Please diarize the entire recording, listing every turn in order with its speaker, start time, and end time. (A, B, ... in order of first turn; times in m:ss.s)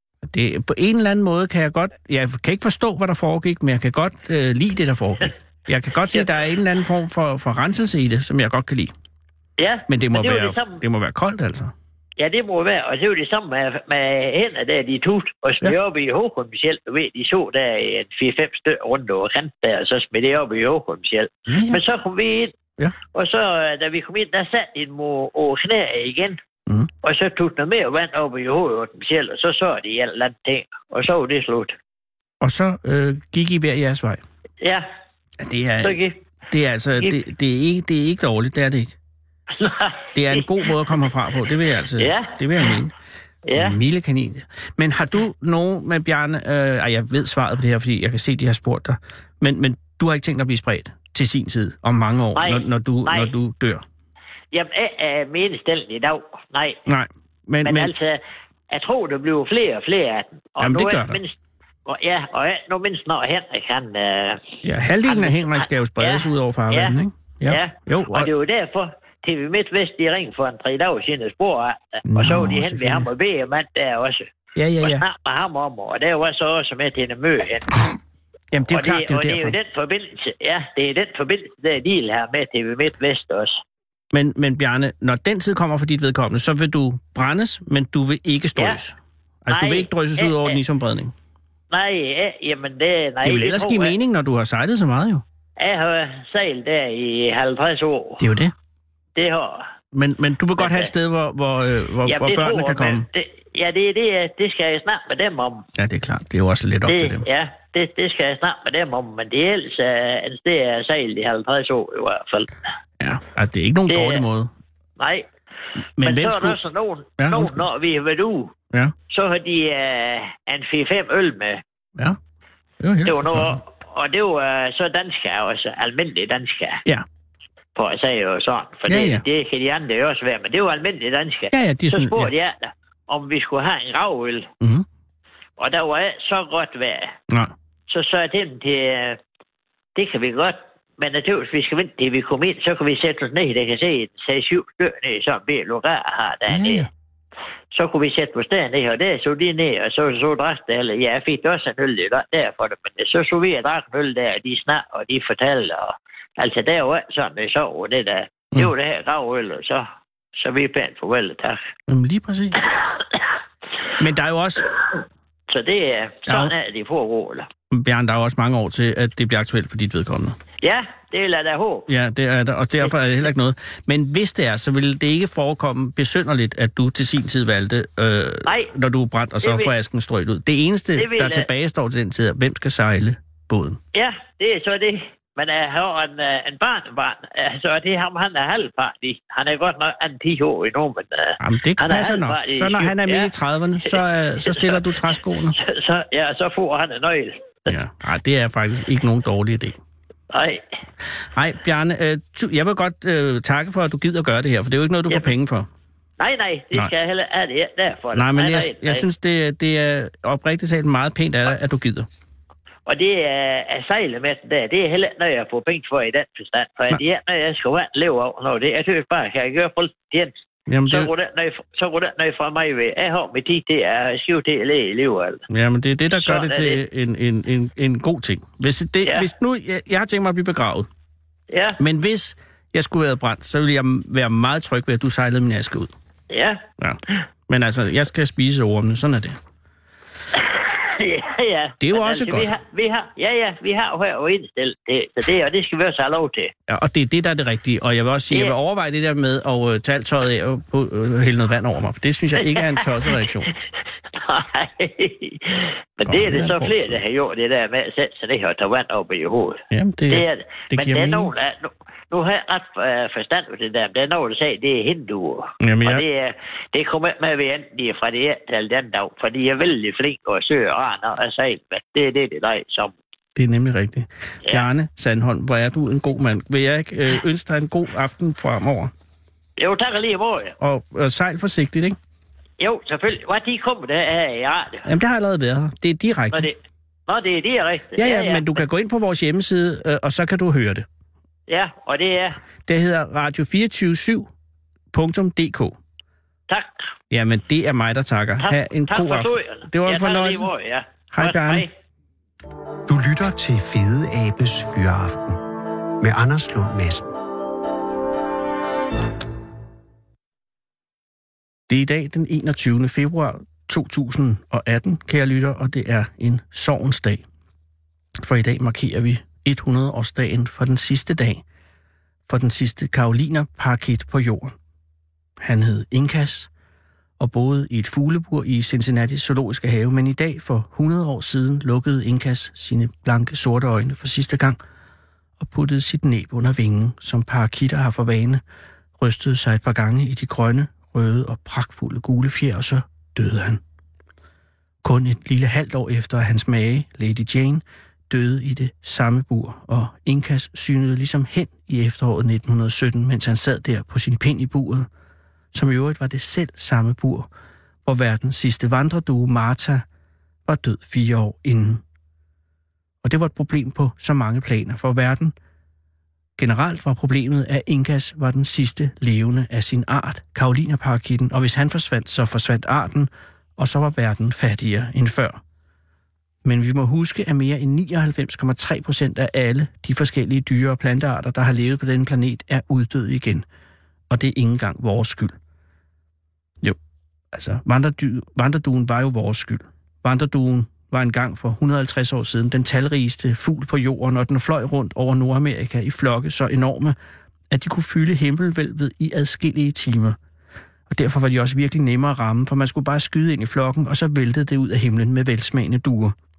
0:00.3-0:08.9 A
0:09.6-0:10.8 B
0:09.9-0:11.7 A
0:12.2-0:22.6 B
0:21.5-0:21.8 A
0:23.1-0:26.4 B
0:27.0-0:31.8 B
0:32.4-0:34.2 A
0:34.6-0:34.8 B
0:35.4-0:36.0 A
0:35.8-0:36.2 B
0:36.5-0:38.9 A
0:39.5-0:41.1 B
0:40.1-0:42.9 A
0:42.0-0:42.8 B
0:43.5-0:43.8 B
0:43.5-0:53.8 A
0:52.3-0:53.3 B
0:54.5-0:56.8 B
0:56.8-0:57.9 A
0:57.6-1:01.3 B
1:00.6-1:01.2 A
1:01.8-1:07.0 B
1:04.6-1:08.3 A
1:07.5-1:17.8 B
1:12.1-1:13.1 A
1:14.5-1:15.0 A
1:18.5-1:19.5 A
1:18.7-1:23.6 B
1:24.1-1:31.1 A
1:29.5-1:30.6 B
1:31.7-1:33.9 B
1:33.2-1:35.2 A
1:35.6-1:38.2 B
1:38.2-1:38.5 A
1:39.2-1:39.6 B
1:39.9-1:43.0 A
1:40.6-1:40.9 B
1:42.1-1:45.7 B
1:45.8-1:47.2 A
1:46.8-1:52.5 B
1:53.0-1:54.5 A
1:53.9-1:54.2 B
1:55.0-1:55.3 B
1:56.0-1:56.6 A
1:56.0-1:58.5 B
1:57.2-1:57.6 A
1:59.1-2:01.6 B
2:02.8-2:03.6 A
2:03.0-2:06.8 B
2:07.7-2:14.5 B
2:08.9-2:09.2 A
2:11.5-2:12.3 A
2:15.6-2:17.1 B
2:17.9-2:19.2 B
2:20.0-2:26.9 B
2:26.5-2:26.9 A
2:27.7-2:41.6 B
2:41.9-2:42.6 A
2:44.0-2:44.7 A
2:45.5-2:47.5 B
2:47.7-2:50.4 A
2:50.6-2:51.9 B
2:51.9-3:03.8 A
2:58.4-2:58.7 B
2:59.4-2:59.7 B
3:01.0-3:01.5 B
3:03.9-3:13.3 B
3:11.4-3:15.6 A
3:13.8-3:14.8 B
3:15.5-3:17.7 B
3:17.7-3:19.8 A
3:20.3-3:20.6 B
3:21.3-3:25.7 A
3:26.2-3:29.1 B
3:28.1-3:32.1 A
3:32.8-3:40.3 B
3:40.7-3:41.1 A
3:40.8-3:45.4 B
3:45.5-3:50.9 A
3:46.1-3:46.8 B
3:51.5-3:51.8 B
3:51.8-3:55.9 A
3:56.3-3:56.6 B
3:56.8-3:59.4 A
4:00.4-4:06.5 B
4:01.8-4:02.5 A
4:06.7-4:13.5 A
4:12.5-4:13.2 B
4:14.1-4:32.9 B
4:16.1-4:17.0 A
4:19.7-4:21.3 A
4:25.6-4:26.0 A
4:33.4-4:38.9 A
4:39.6-4:40.5 B
4:40.6-4:42.0 A
4:42.6-4:44.9 B
4:44.8-4:46.5 A
4:46.3-4:46.6 B
4:47.1-4:48.6 B
4:48.0-4:50.8 A
4:51.5-4:52.4 B
4:52.6-4:54.3 A
4:54.9-4:55.8 A
4:56.5-4:56.9 B
4:57.1-5:00.5 A
4:58.4-5:01.7 B
5:01.1-5:01.6 A
5:02.9-5:05.4 C
5:06.0-5:07.1 C
5:11.7-5:17.2 A
5:18.2-5:21.4 A
5:22.3-5:24.5 A
5:25.4-5:26.5 A
5:27.2-5:34.6 A
5:35.4-5:38.4 A
5:39.0-5:43.6 A
5:44.8-5:54.9 A
5:55.5-5:57.3 A
5:57.8-5:59.8 A
6:00.4-6:01.8 A
6:03.0-6:05.3 A
6:06.4-6:15.4 A
6:16.4-6:23.4 A
6:24.1-6:25.3 A
6:27.3-6:37.0 A
6:37.5-6:40.2 A
6:40.9-6:46.1 A